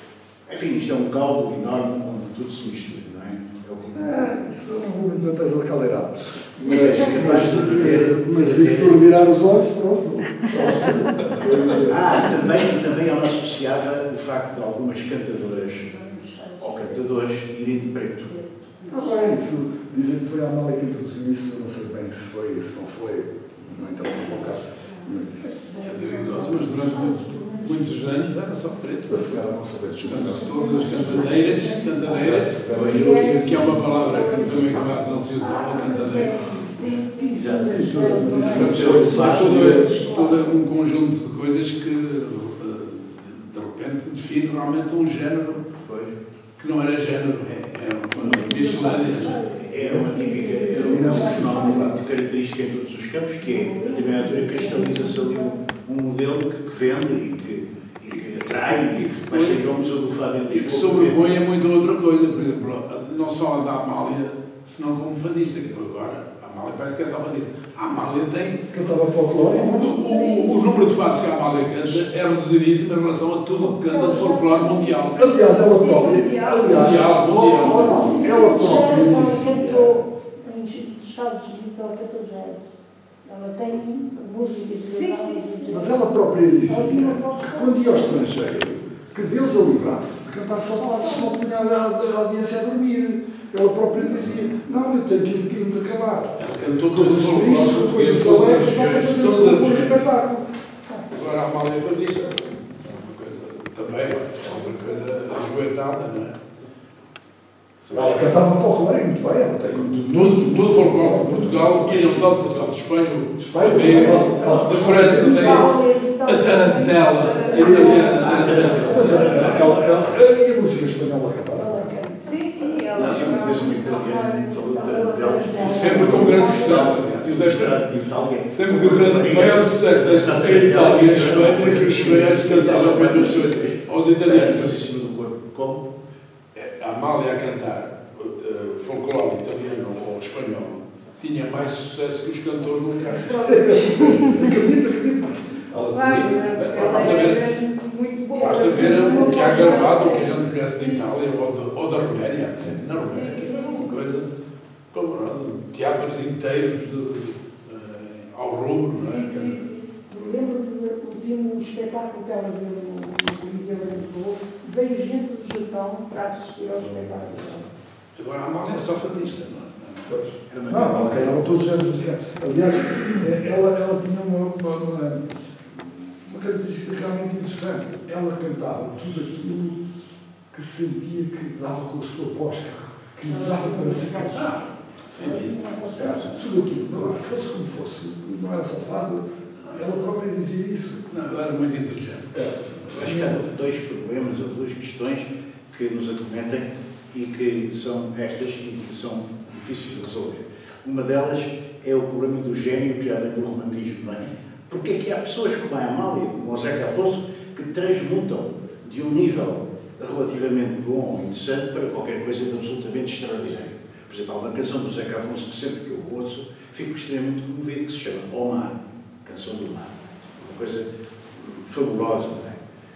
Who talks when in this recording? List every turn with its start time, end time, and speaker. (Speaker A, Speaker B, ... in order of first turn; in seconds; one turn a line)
Speaker A: 0.5-4.3
Speaker B: 3.9-12.5
Speaker A: 6.6-9.0
Speaker A: 11.7-15.9
Speaker C: 15.8-17.1
Speaker A: 16.6-18.4
Speaker C: 18.4-19.4
Speaker B: 18.9-25.6
Speaker C: 25.0-27.9
Speaker D: 25.8-29.5
Speaker B: 29.1-31.1
Speaker D: 30.0-36.4
Speaker C: 30.2-40.6
Speaker B: 32.0-34.9
Speaker E: 36.7-37.3
Speaker A: 37.3-39.8
Speaker B: 37.6-40.0
Speaker D: 38.4-45.6
Speaker A: 45.9-46.1
Speaker D: 46.6-49.4
Speaker C: 48.2-52.0
Speaker A: 48.6-61.2
Speaker B: 49.8-50.1
Speaker B: 50.7-52.0
Speaker C: 53.4-55.6
Speaker D: 58.4-59.7
Speaker D: 60.5-68.7
Speaker B: 68.7-70.1
Speaker D: 69.5-75.5
Speaker C: 69.5-70.6
Speaker E: 70.1-70.4
Speaker C: 73.6-74.8
Speaker B: 75.1-80.0
Speaker E: 75.5-77.1
Speaker D: 76.7-78.3
Speaker C: 77.6-88.3
Speaker E: 84.8-85.8
Speaker B: 85.7-101.0
Speaker C: 90.8-91.3
Speaker D: 96.4-100.1
Speaker D: 101.1-106.4
Speaker B: 107.9-112.3
Speaker A: 107.9-108.2
Speaker D: 110.1-119.6
Speaker B: 113.4-115.7
Speaker C: 113.8-119.5
Speaker E: 117.2-118.6
Speaker B: 117.6-118.0
Speaker A: 118.2-119.9
Speaker B: 118.8-122.0
Speaker C: 121.5-122.4
Speaker E: 122.2-126.0
Speaker A: 122.9-135.9
Speaker C: 123.0-127.0
Speaker D: 125.6-127.8
Speaker D: 128.5-134.8
Speaker D: 136.6-143.5
Speaker E: 143.1-144.6
Speaker B: 143.4-147.1
Speaker E: 145.9-151.0
Speaker D: 145.9-147.4
Speaker C: 148.4-150.2
Speaker D: 148.4-154.3
Speaker B: 152.6-153.0
Speaker E: 153.0-153.9
Speaker C: 153.1-153.9
Speaker D: 154.9-159.5
Speaker E: 158.9-159.9
Speaker C: 160.1-167.7
Speaker D: 168.2-170.2
Speaker B: 170.1-179.8
Speaker A: 170.5-171.6
Speaker B: 180.5-184.7
Speaker C: 183.3-186.5
Speaker D: 185.1-186.3
Speaker B: 186.0-191.1
Speaker D: 191.1-192.9
Speaker B: 192.3-193.4
Speaker A: 192.9-222.6